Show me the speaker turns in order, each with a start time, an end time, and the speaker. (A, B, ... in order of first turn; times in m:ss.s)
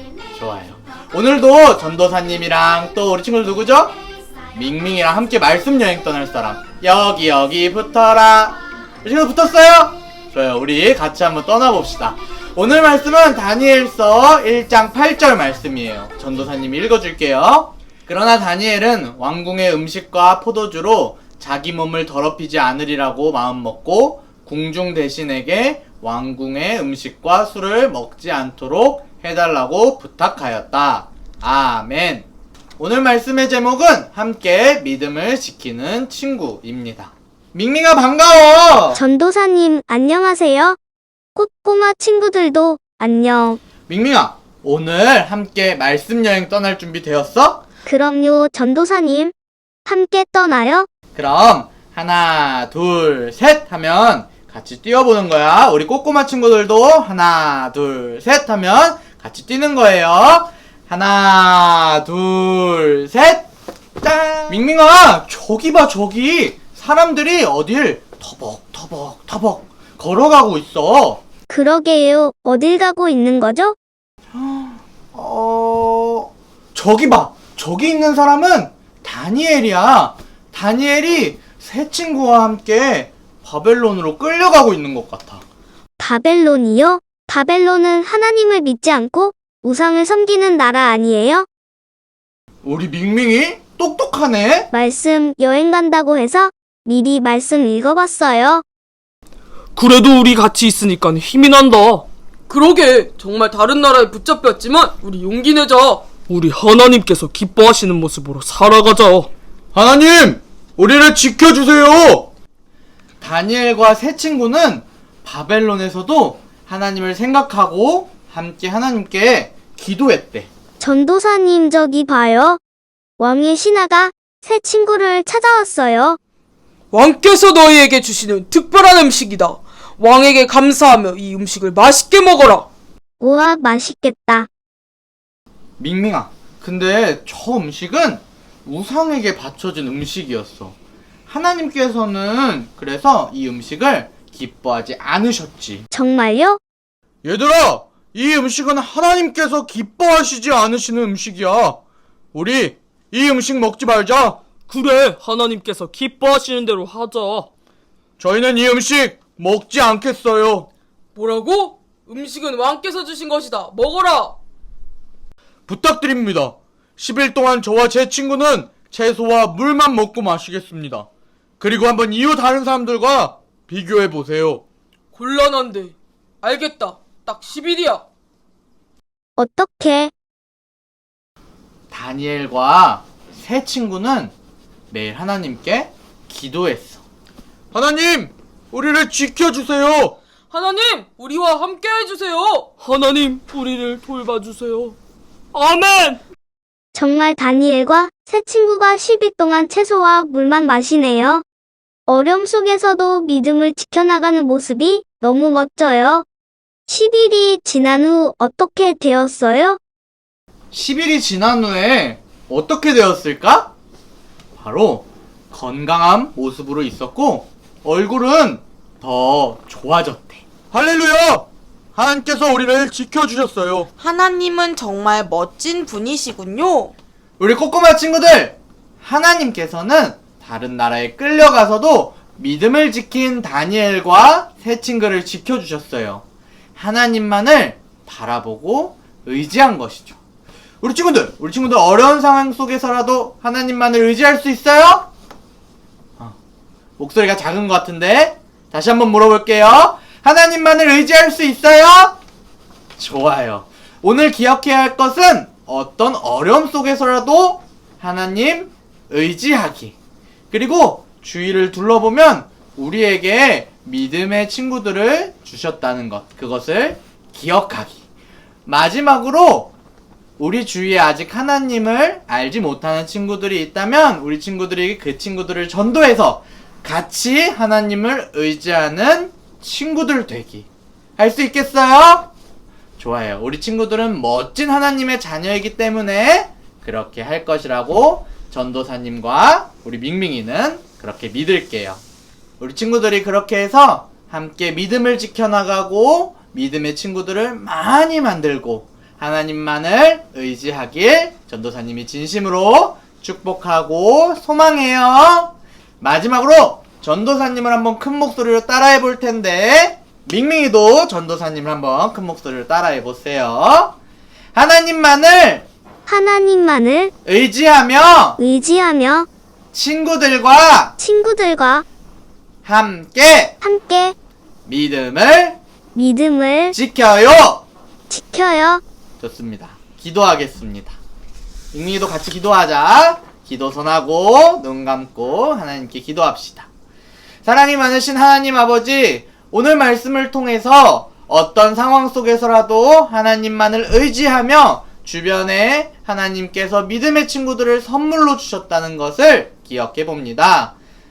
0:00.3-0:04.0 A
0:04.5-0:32.3 A
0:32.8-0:39.0 A
0:38.9-0:40.8 B
0:41.4-0:43.6 B
0:43.9-0:47.6 A
0:47.9-0:49.3 B
0:49.9-0:50.9 B
0:51.1-1:03.5 A
1:04.0-1:11.2 A
1:11.5-1:13.8 B
1:14.3-1:25.4 A
1:26.0-1:31.5 B
1:32.6-1:34.7 A
1:34.7-1:38.6 B
1:39.8-1:42.1 C
1:42.5-1:46.2 D
1:46.2-1:49.3 C
1:49.7-1:52.3 A
1:53.2-2:00.5 A
2:00.8-2:02.6 B
2:03.2-2:06.2 B
2:06.9-2:12.7 D
2:13.2-2:14.5 B
2:15.8-2:20.8 A
2:21.3-2:25.9 A
2:25.9-2:26.6 B
2:27.2-2:31.8 A
2:32.3-2:34.4 A
2:34.5-2:37.5 C
2:38.2-2:40.7 A
2:41.2-2:44.4 D
2:45.7-2:51.1 A
2:51.6-2:54.6 A
2:55.1-2:58.0 D
2:59.4-3:00.1 B
3:01.9-3:04.3 A
3:04.9-3:07.0 A
3:07.7-3:10.2 A
3:10.5-3:12.7 D
3:12.8-3:15.0 C
3:15.5-3:16.2 C
3:16.9-3:21.4 B
3:22.1-3:26.3 B
3:26.9-3:29.8 B
3:30.7-3:33.7 A
3:34.6-3:43.9 A
3:44.0-3:46.9 E
3:47.4-3:56.2 A
3:56.8-4:00.2 A
4:00.8-4:05.1 A
4:07.0-4:12.2 A
4:13.0-4:19.9 A
4:20.5-4:28.0 A
4:28.7-4:29.7 A
4:30.4-4:42.3 A
4:43.0-4:52.0 A
4:52.6-5:14.0 A
5:14.5-5:15.7 A
5:16.1-5:17.1 B
5:17.2-5:18.4 A
5:18.4-5:19.3 B
5:19.7-5:20.9 A
5:21.0-5:21.8 B
5:22.6-5:23.6 A
5:23.6-5:24.2 B
5:24.7-5:25.6 A
5:25.9-5:26.8 B
5:26.7-5:27.6 A
5:28.1-5:28.8 B
5:29.2-5:31.0 A
5:31.7-5:36.7 A
5:37.4-5:50.7 A